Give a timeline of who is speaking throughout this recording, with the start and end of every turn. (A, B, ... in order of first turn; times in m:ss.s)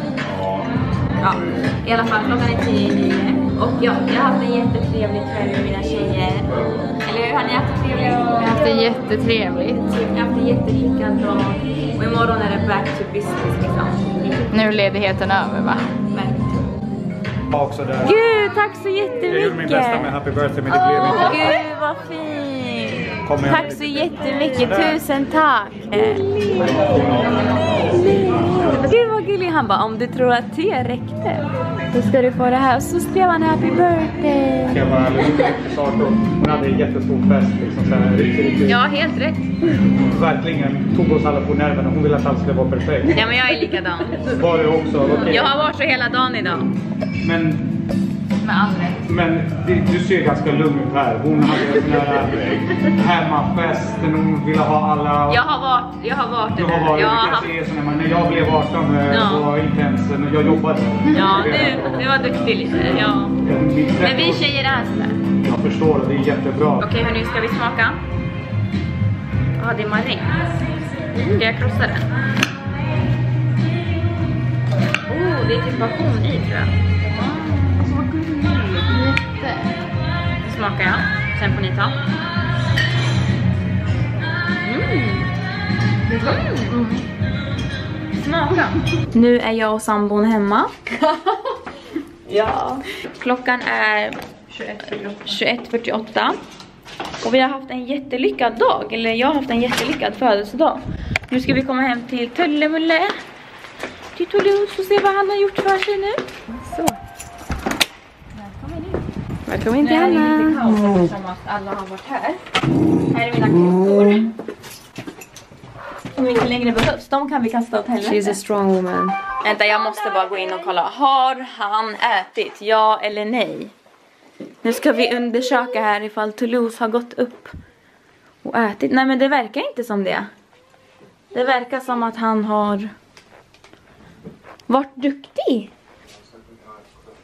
0:01.2-0:08.9 A
0:08.5-0:09.9 B
0:09.9-0:14.2 A
0:14.5-0:16.0 B
0:16.1-0:16.4 A
0:17.5-0:18.2 C
0:18.0-0:20.1 A
0:19.3-0:21.6 C
0:20.7-0:26.9 A
0:23.2-0:25.0 C
0:26.6-0:27.4 C
0:27.9-0:34.9 A
0:34.7-0:38.9 C
0:38.7-0:39.5 A
0:40.1-0:43.2 C
0:43.1-0:44.4 A
0:44.2-0:45.6 C
0:45.2-0:46.7 A
0:47.2-0:47.7 C
0:48.4-0:49.0 B
0:49.0-0:55.5 C
0:55.3-0:57.5 A
0:56.5-1:02.1 C
0:59.1-0:59.4 A
1:01.1-1:03.4 A
1:02.8-1:04.5 C
1:04.0-1:05.2 A
1:05.4-1:06.9 C
1:06.8-1:08.0 A
1:09.6-1:10.4 A
1:11.1-1:12.1 A
1:15.1-1:18.8 A
1:18.9-1:19.8 B
1:20.4-1:22.0 A
1:24.6-1:25.3 A
1:26.1-1:26.8 A
1:26.7-1:27.0 B
1:28.1-1:30.8 A
1:32.3-1:36.4 A
1:37.2-1:43.1 A
1:44.2-1:46.9 A
1:48.4-1:52.4 A
1:49.8-1:50.9 D
1:50.2-1:50.6 B
1:53.1-1:54.3 A
1:56.2-1:58.4 A
1:58.1-1:59.2 D
1:59.4-2:03.7 A
2:04.6-2:07.6 A
2:08.4-2:10.3 A
2:11.3-2:12.9 A
2:14.7-2:15.7 A